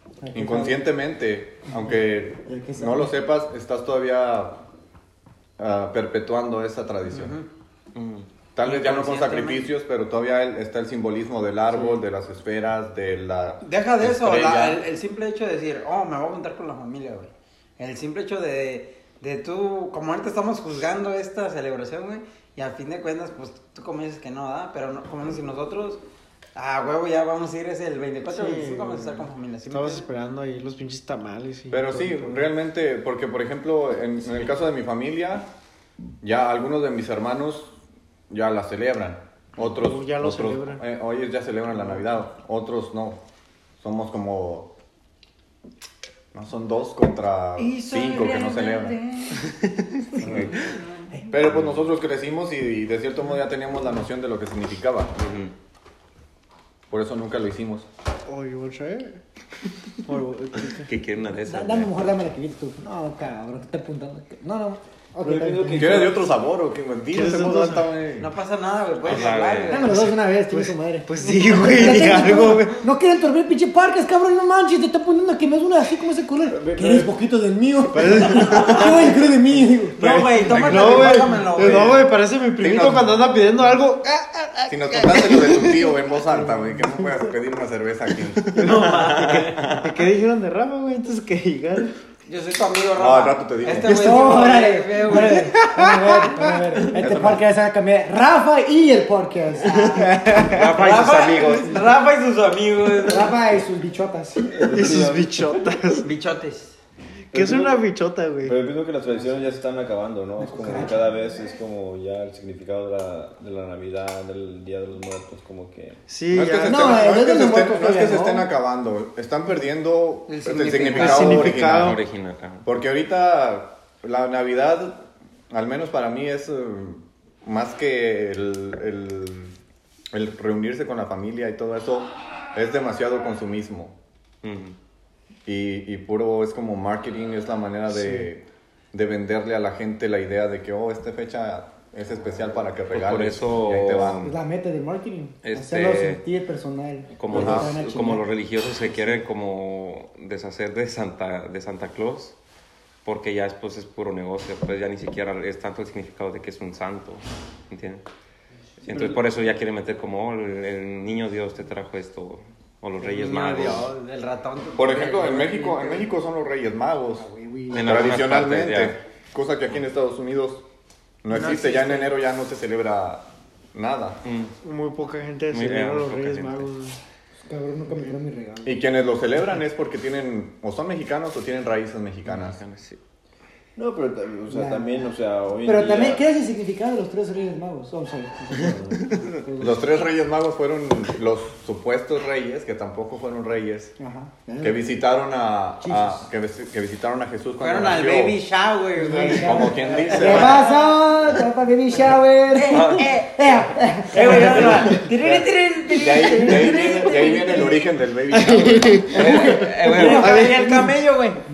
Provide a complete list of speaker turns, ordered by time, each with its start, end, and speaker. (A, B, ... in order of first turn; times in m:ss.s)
0:00.2-0:00.8 A
0:00.3-0:04.6 B
0:02.5-0:03.1 A
0:05.6-0:07.4 B
0:07.1-0:07.5 C
0:07.9-0:08.3 D
0:08.5-0:14.8 B
0:08.6-0:09.7 C
0:13.6-0:26.0 C
0:26.6-0:30.1 C
0:28.3-0:32.4 E
0:31.7-0:35.5 B
0:36.2-0:37.8 B
0:38.3-0:43.2 B
0:39.7-0:40.8 E
0:43.8-0:44.7 B
0:46.3-0:49.0 B
0:47.6-0:49.4 C
0:50.2-0:50.5 D
0:50.2-0:50.5 B
0:50.5-0:51.1 C
0:51.3-0:55.2 B
0:55.2-0:55.5 D
0:56.9-0:57.9 B
0:58.2-0:59.2 E
1:00.0-1:00.9 E
1:00.7-1:01.9 D
1:01.5-1:06.1 A
1:05.2-1:06.2 F
1:05.7-1:08.3 B
1:07.1-1:07.9 E
1:08.2-1:10.0 C
1:09.0-1:10.0 D
1:09.7-1:20.0 A
1:10.5-1:12.8 E
1:16.5-1:17.2 F
1:17.9-1:19.1 E
1:18.4-1:18.8 C
1:20.0-1:22.1 C
1:20.0-1:26.0 E
1:22.6-1:23.6 B
1:24.7-1:28.5 B
1:28.5-1:31.9 E
1:28.6-1:29.7 C
1:28.7-1:29.9 D
1:32.3-1:35.6 C
1:33.0-1:34.4 B
1:33.7-1:40.2 A
1:35.0-1:36.9 E
1:36.9-1:37.4 B
1:39.6-1:40.0 C
1:39.7-1:41.0 E
1:40.4-1:41.7 D
1:40.5-1:43.4 C
1:43.0-1:44.6 A
1:44.4-1:46.0 F
1:44.7-1:46.1 E
1:46.0-1:46.8 C
1:47.3-1:47.8 F
1:47.3-1:48.6 E
1:48.4-1:56.0 F
1:50.4-1:51.1 A
1:56.1-1:57.0 E
1:56.3-2:02.0 B
1:56.6-1:58.5 A
2:00.3-2:01.5 C
2:00.9-2:02.0 E
2:01.6-2:02.7 D
2:02.6-2:09.6 B
2:10.1-2:14.0 B
2:14.4-2:14.8 D
2:15.4-2:24.3 B
2:22.9-2:24.4 D
2:24.2-2:28.2 A
2:25.4-2:26.2 D
2:27.1-2:32.4 D
2:27.3-2:27.7 B
2:33.0-2:38.0 D
2:38.8-2:43.9 D
2:43.0-2:46.1 C
2:44.8-2:50.6 B
2:47.7-2:49.0 D
2:51.2-2:54.2 B
2:51.3-2:52.0 E
2:54.2-2:54.5 D
2:54.6-2:57.0 E
2:55.5-2:56.7 D
2:57.5-2:58.8 A
2:58.6-3:02.6 B
3:02.2-3:03.0 D
3:03.8-3:06.2 F
3:04.5-3:04.9 A
3:05.6-3:09.8 A
3:08.6-3:09.1 F
3:09.6-3:14.0 B
3:14.0-3:14.8 A
3:14.6-3:18.4 B
3:15.8-3:16.2 A
3:17.6-3:21.0 C
3:19.0-3:24.9 A
3:19.0-3:20.7 B
3:22.5-3:27.8 C
3:22.7-3:23.1 D
3:25.2-3:29.2 B
3:28.3-3:30.8 E
3:29.1-3:30.9 A
3:29.1-3:30.4 D
3:29.8-3:31.4 C